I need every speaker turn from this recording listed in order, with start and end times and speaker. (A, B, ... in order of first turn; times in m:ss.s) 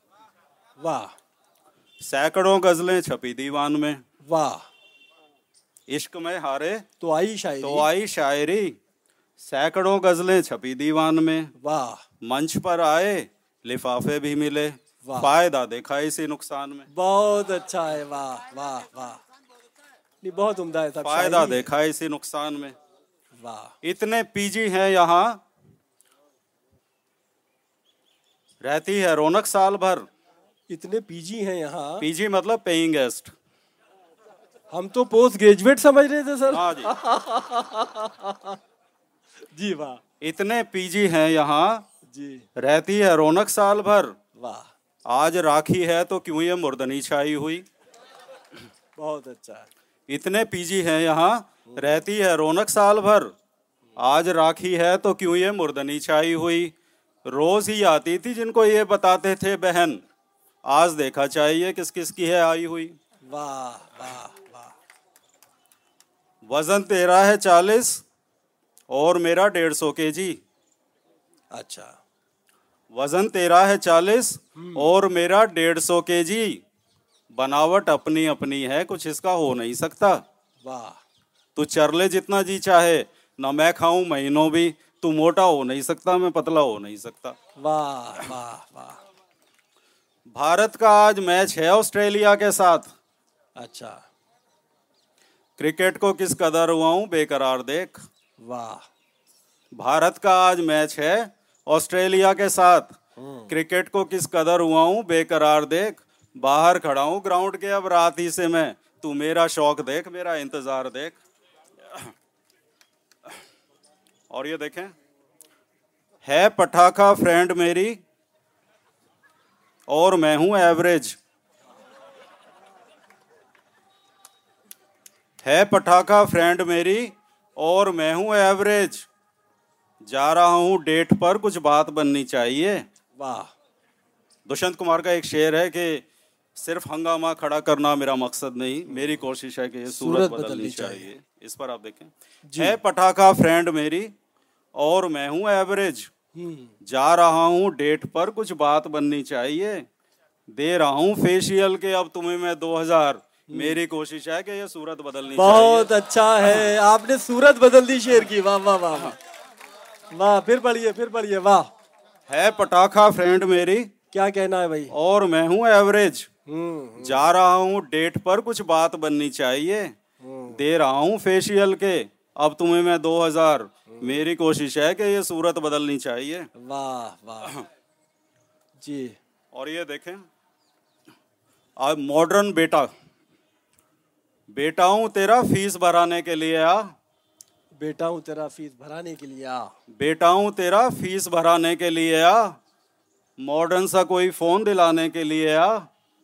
0:00.8-0:01.1 A
0:02.0-0:04.0 B
0:04.3-0:04.6 A
0:05.9-0:06.8 B
0:07.0-0:07.9 A
0:07.6-0:08.8 B
0:09.4-0:11.5 B
0:11.6-0:12.0 A
0:12.2-0:16.9 B
0:15.0-0:15.3 A
0:16.9-0:19.2 A
0:20.2-0:21.7 A
0:21.0-0:22.8 B
0:23.4-0:23.8 A
0:23.8-0:25.4 B
0:28.6-0:30.1 B
0:30.7-0:32.0 A
0:32.0-0:33.3 B
0:34.7-0:38.6 A
0:36.5-0:36.9 B
0:39.5-0:40.0 A
0:40.2-0:41.8 B
0:42.1-0:42.4 A
0:42.6-0:44.1 B
0:44.4-0:44.7 A
0:45.1-0:47.6 B
0:49.0-0:49.7 A
0:50.1-0:53.3 B
0:51.7-0:52.0 A
0:54.0-0:56.7 B
0:57.3-1:00.0 B
1:00.7-1:03.0 B
1:03.3-1:04.7 A
1:06.5-1:08.0 B
1:08.9-1:10.4 B
1:11.5-1:11.9 A
1:12.9-1:16.6 B
1:14.6-1:14.9 A
1:17.3-1:20.2 B
1:20.6-1:21.0 A
1:21.6-1:27.4 B
1:27.6-1:29.0 A
1:30.3-1:32.9 B
1:33.6-1:34.0 A
1:35.6-1:38.0 B
1:38.4-1:38.8 A
1:39.8-1:43.0 B
1:43.2-1:43.5 A
1:43.5-1:51.2 B
1:54.3-1:54.9 B
1:56.2-1:58.0 B
1:59.9-2:01.2 B
2:05.4-2:09.1 B
2:10.0-2:12.8 B
2:13.2-2:13.5 A
2:14.5-2:16.0 B
2:16.6-2:24.1 B
2:18.9-2:19.2 A
2:19.9-2:21.1 A
2:22.5-2:22.8 A
2:24.8-2:26.1 B
2:26.4-2:26.8 A
2:26.8-2:29.9 B
2:30.5-2:35.9 B
2:33.5-2:33.8 A
2:35.3-2:39.2 A
2:36.4-2:36.7 B
2:40.1-2:41.7 A
2:42.3-2:43.9 B
2:44.1-2:45.0 A
2:44.9-2:46.3 B
2:46.5-2:47.2 A
2:47.0-2:50.0 B
2:50.2-2:50.6 A
2:50.5-2:56.5 B
2:53.9-2:54.2 A
2:56.6-2:57.6 A
2:58.8-2:59.2 A
2:59.5-3:00.2 B
3:01.8-3:02.9 B
3:04.5-3:06.9 B
3:07.8-3:09.7 A
3:09.9-3:12.6 B
3:13.4-3:15.9 B